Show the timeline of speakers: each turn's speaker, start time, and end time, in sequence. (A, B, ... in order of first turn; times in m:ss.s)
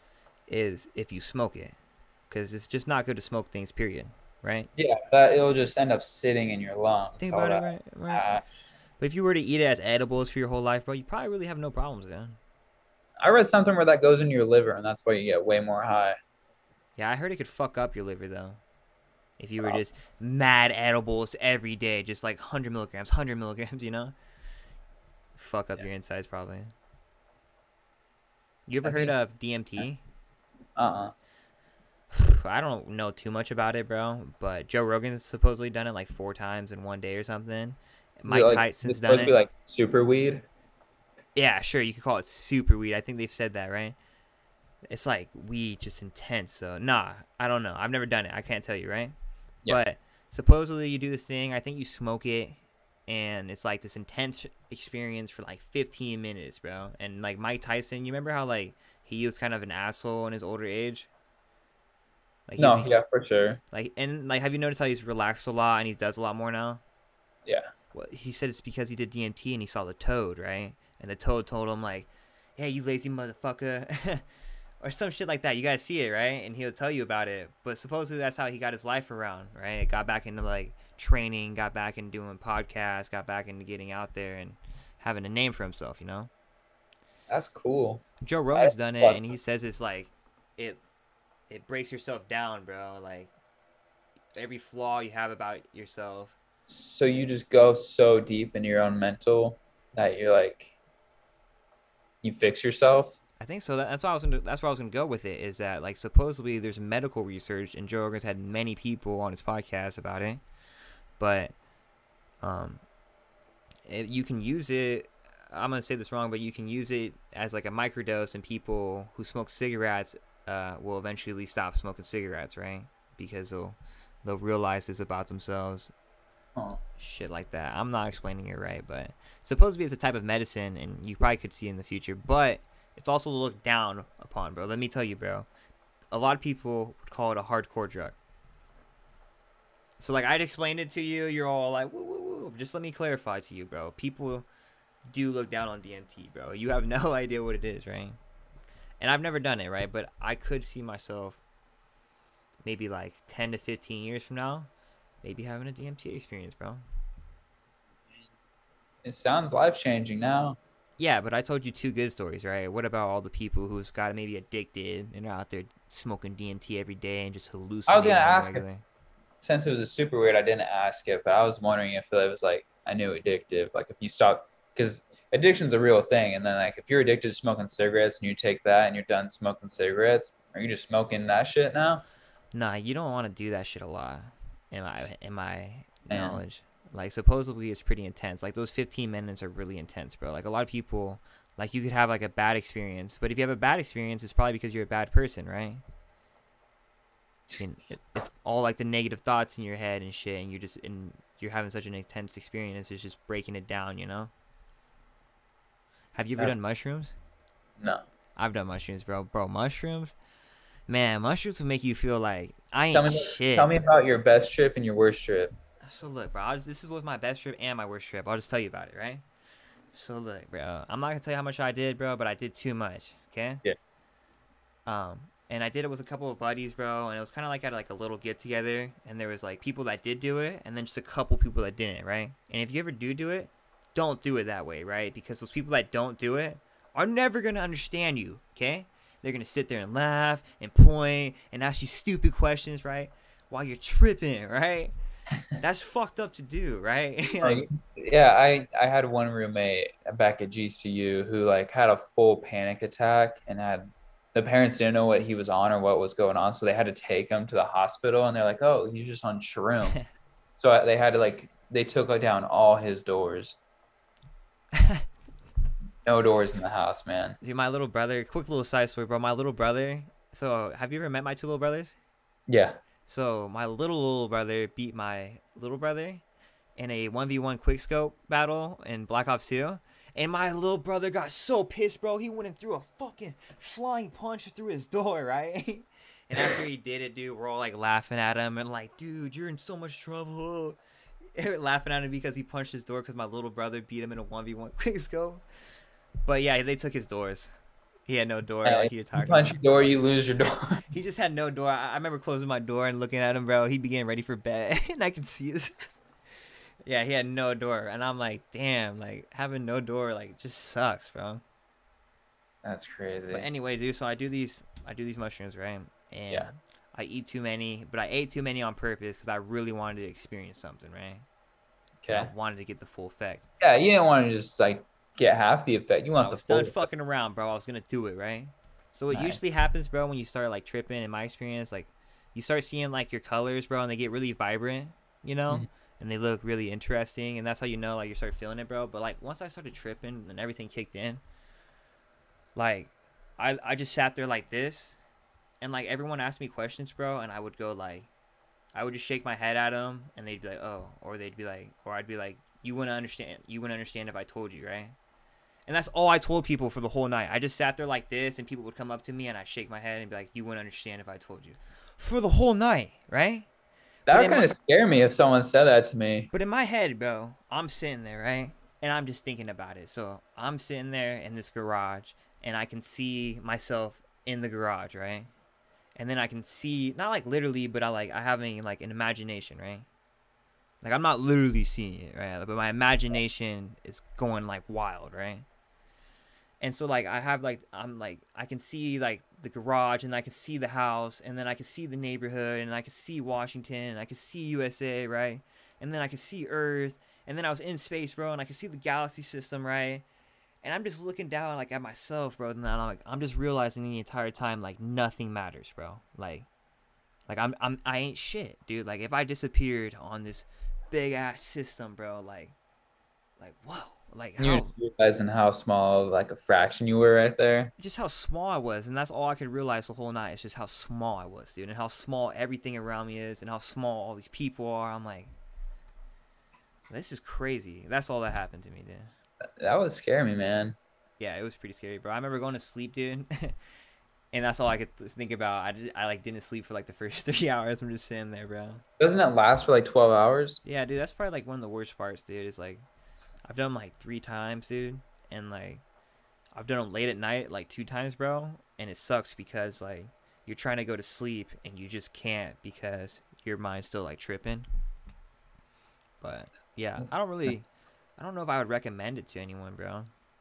0:00.5-0:01.7 A
0:02.3-0:04.7 A
0:04.8-0:08.4 B
0:07.2-0:08.3 A
0:09.0-0:12.4 A
0:13.2-0:16.2 B
0:17.0-0:18.6 A
0:19.4-0:24.1 A
0:25.4-0:26.7 A
0:28.7-0:30.0 A
0:28.8-0:29.1 B
0:30.8-0:31.1 B
0:32.1-0:39.3 A
0:38.3-0:40.4 B
0:41.3-0:44.0 A
0:44.9-0:49.1 A
0:49.7-1:01.1 A
1:02.5-1:02.9 A
1:02.6-1:03.6 B
1:03.7-1:06.8 A
1:07.9-1:14.2 A
1:14.8-1:26.3 A
1:27.3-1:28.0 B
1:28.2-1:30.8 A
1:28.5-1:29.2 B
1:31.5-1:33.3 A
1:34.3-1:36.4 A
1:36.6-1:40.7 B
1:42.2-1:43.2 B
1:43.4-1:50.4 A
1:51.2-1:51.5 A
1:52.4-1:52.8 A
1:53.8-2:05.9 A
2:07.0-2:15.5 A
2:16.1-2:18.2 A
2:20.0-2:24.4 A
2:25.1-2:28.2 A
2:29.0-2:31.4 A
2:32.6-2:34.7 A
2:35.2-2:36.8 A
2:39.0-2:40.6 B
2:41.0-2:48.8 A
2:47.9-2:48.6 B
2:49.4-3:02.0 B
3:02.5-3:15.8 A
3:06.1-3:06.4 B
3:17.5-3:24.3 A
3:26.1-3:27.1 A
3:27.8-3:28.0 B
3:28.4-3:30.1 A
3:30.9-3:33.9 A
3:32.9-3:35.5 B
3:35.8-3:39.2 A
3:39.9-3:43.6 A
3:44.8-4:04.9 A
4:05.6-4:07.7 A
4:07.4-4:20.0 B
4:20.6-4:23.6 B
4:24.8-4:25.0 A
4:26.0-4:27.4 B
4:27.4-4:32.0 A
4:32.5-4:32.8 B
4:33.1-4:36.2 A
4:36.8-4:50.8 A
4:51.4-4:55.4 A
4:56.2-4:57.5 A
4:58.1-4:59.6 A
4:58.6-5:00.8 B
5:00.9-5:06.0 A
5:06.8-5:11.4 A
5:12.6-5:13.5 B
5:13.3-5:21.2 A
5:22.0-5:22.3 B
5:22.1-5:23.5 A
5:23.6-5:26.8 B
5:26.2-5:41.2 A
5:29.1-5:29.4 B
5:42.5-5:45.0 A
5:45.6-5:48.1 A
5:48.7-5:55.0 A
5:55.7-6:03.5 A
6:04.1-6:06.3 B
6:04.1-6:04.5 A
6:06.3-6:15.3 A
6:15.9-6:19.8 A
6:20.8-6:25.4 A
6:26.6-6:40.0 A
6:40.6-6:46.5 A
6:47.3-6:52.5 A
6:53.4-6:54.7 A
6:54.4-6:57.7 B
6:57.8-7:05.3 A
7:06.9-7:09.1 A
7:09.6-7:10.8 B
7:11.2-7:13.6 A
7:14.3-7:18.8 A
7:19.0-7:20.6 B
7:20.6-7:22.8 A
7:23.4-7:25.8 A
7:26.5-7:34.7 A
7:36.2-7:37.6 A
7:38.2-7:40.1 A